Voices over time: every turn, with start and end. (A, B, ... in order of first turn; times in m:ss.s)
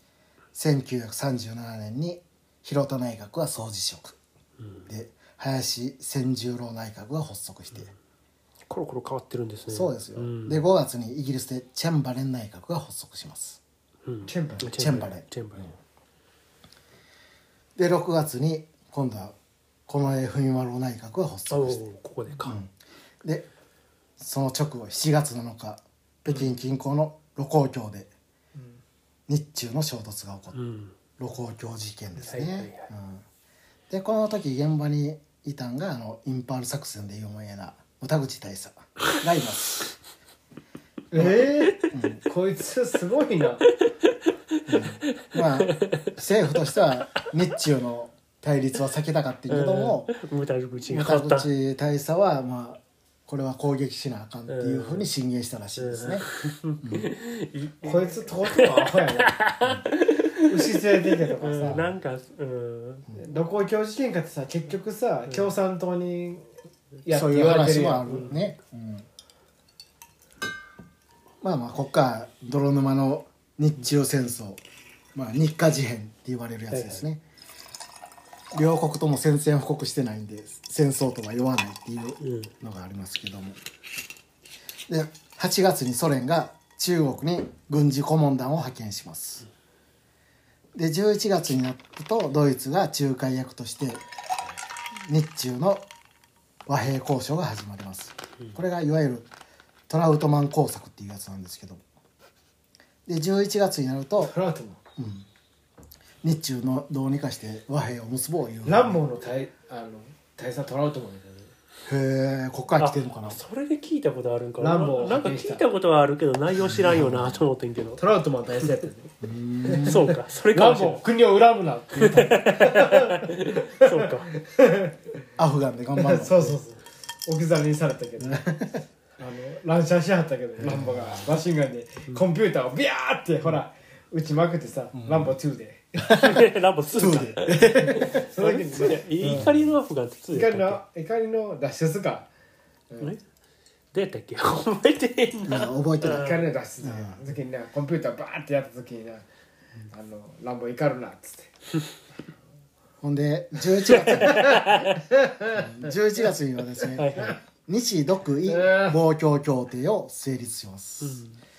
0:00.5-0:04.2 A
0:04.6-0:04.9 B
0:04.9-0:07.9 A
0:08.7-0:10.6 B
0:09.7-0:13.6 A
0:14.0-0:15.7 B
0:14.2-0:14.7 C
0:14.6-0:15.2 A
0:17.8-0:19.4 A
0:19.9-0:21.8 A
0:21.5-0:22.6 B
0:22.4-0:23.5 A
0:24.2-0:28.1 A
0:28.5-0:28.8 C
0:29.3-0:30.6 A
0:30.5-0:31.0 B
0:31.2-0:33.2 A
0:32.2-0:32.9 B
0:33.9-0:39.8 A
0:41.1-0:43.7 C
0:41.9-0:42.2 A
0:44.7-0:46.1 B
0:44.7-0:50.1 A
0:46.7-0:47.3 B
0:49.5-0:51.5 B
0:50.9-0:56.2 A
0:54.5-0:55.1 B
0:55.8-1:03.1 B
0:56.8-0:57.1 A
0:57.8-0:59.4 C
1:00.4-1:01.9 C
1:03.1-1:06.4 C
1:07.0-1:08.4 C
1:07.1-1:09.1 A
1:11.4-1:14.6 A
1:15.1-1:17.2 A
1:16.7-1:17.0 B
1:18.5-1:23.6 A
1:22.2-1:22.5 B
1:24.9-1:29.4 A
1:30.7-1:34.0 A
1:35.0-1:35.8 A
1:36.7-1:39.3 A
1:39.9-1:41.8 A
1:43.0-1:44.3 A
1:44.2-1:44.8 C
1:45.0-1:45.3 A
1:46.2-1:49.0 A
1:48.6-1:51.5 C
1:51.8-1:53.4 A
1:52.8-1:58.0 B
1:54.6-1:55.6 C
1:56.6-1:57.4 A
1:58.0-1:59.1 C
1:59.2-2:00.1 A
1:59.6-2:05.0 C
1:59.8-2:01.0 B
2:02.0-2:04.3 B
2:05.4-2:06.6 A
2:06.0-2:08.4 C
2:08.2-2:08.7 A
2:09.2-2:16.1 C
2:10.6-2:10.9 A
2:14.9-2:15.3 A
2:16.0-2:18.2 A
2:16.1-2:20.8 B
2:17.8-2:19.5 C
2:19.3-2:19.6 A
2:20.3-2:22.3 C
2:22.9-2:23.2 C
2:23.9-2:26.4 B
2:25.4-2:27.2 A
2:26.0-2:29.2 C
2:29.9-2:31.5 C
2:33.0-2:34.5 A
2:33.9-2:35.0 B
2:34.0-2:35.7 C
2:35.5-2:41.2 A
2:36.9-2:37.4 B
2:38.4-2:39.0 C
2:41.0-2:41.4 B